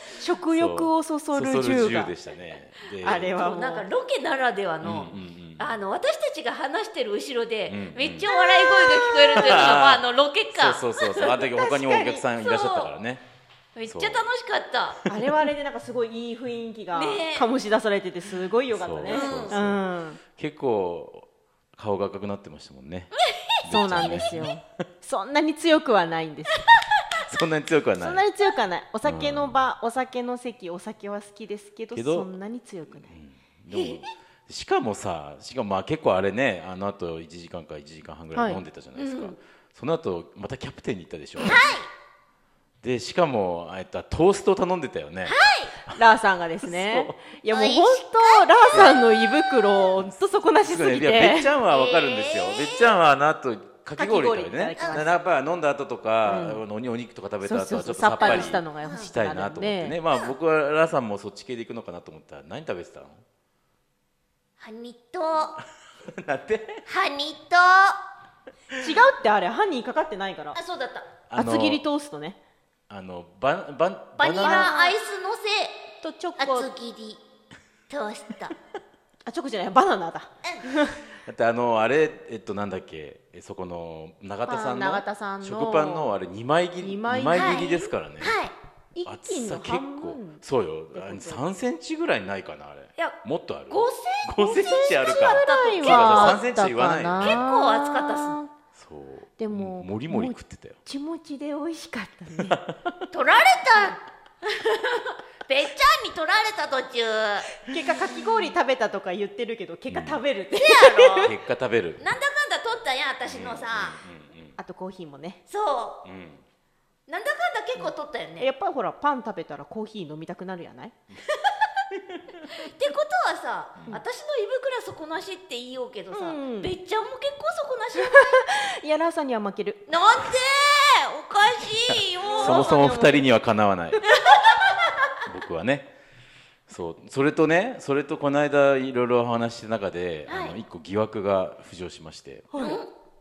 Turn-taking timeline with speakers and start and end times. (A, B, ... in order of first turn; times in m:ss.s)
0:00.2-0:02.1 A
0:00.5-0:03.5 B
0:03.0-0:03.9 A
0:03.3-0:11.5 C
0:04.8-0:05.8 B
0:07.7-0:08.3 B
0:08.4-0:09.3 A
0:09.3-0:13.2 B
0:11.5-0:12.2 A
0:12.4-0:12.9 C
0:13.8-0:15.0 C
0:13.9-0:14.2 B
0:15.0-0:15.4 B
0:15.1-0:20.2 A
0:17.0-0:17.5 C
0:18.7-0:19.8 B
0:19.1-0:19.6 C
0:20.4-0:23.1 B
0:23.2-0:23.6 C
0:23.6-0:24.5 B
0:23.7-0:26.6 A
0:27.2-0:28.3 B
0:28.0-0:33.1 A
0:29.0-0:29.6 B
0:31.9-0:32.3 B
0:33.1-0:41.7 B
0:33.7-0:34.0 C
0:38.3-0:38.6 A
0:39.0-0:39.4 C
0:41.4-0:41.9 C
0:42.8-0:46.0 B
0:45.2-0:45.7 C
0:45.9-0:51.5 A
0:46.6-0:47.2 B
0:47.5-0:49.8 C
0:50.0-1:03.2 B
0:51.7-0:52.9 C
0:54.0-0:55.1 A
0:56.2-0:56.6 A
0:57.4-1:00.0 A
0:58.2-0:59.1 C
1:04.6-1:05.6 C
1:05.6-1:06.8 B
1:06.9-1:08.0 C
1:08.8-1:10.6 A
1:10.6-1:11.1 C
1:11.3-1:11.8 B
1:11.4-1:12.4 A
1:12.9-1:14.8 B
1:14.2-1:15.8 C
1:14.4-1:15.0 A
1:16.0-1:16.7 A
1:16.4-1:17.2 C
1:17.9-1:18.6 C
1:19.3-1:21.0 A
1:21.3-1:28.4 B
1:24.5-1:26.1 A
1:26.8-1:27.9 A
1:27.3-1:27.6 C
1:28.2-1:28.5 C
1:29.0-1:30.4 A
1:29.1-1:37.4 B
1:30.9-1:31.4 A
1:33.0-1:36.4 C
1:34.4-1:38.5 A
1:37.2-1:38.4 C
1:38.7-1:40.8 B
1:39.4-1:42.6 A
1:42.4-1:43.1 B
1:43.1-1:47.5 C
1:47.6-1:51.3 A
1:49.9-1:50.2 B
1:50.6-1:51.4 C
1:51.2-1:52.0 B
1:52.0-1:54.0 C
1:53.3-1:54.6 B
1:54.6-1:55.4 A
1:55.5-1:56.0 C
1:56.0-1:56.4 B
1:57.1-1:58.5 C
1:58.4-2:00.9 A
2:01.3-2:01.7 C
2:01.9-2:02.4 B
2:02.5-2:08.5 C
2:06.1-2:06.8 A
2:08.0-2:09.8 A
2:09.9-2:12.8 C
2:11.9-2:14.1 B
2:12.3-2:13.2 A
2:14.1-2:14.8 C
2:15.2-2:15.9 B
2:16.7-2:22.5 B
2:20.3-2:20.6 C
2:22.5-2:22.8 A
2:22.6-2:22.9 C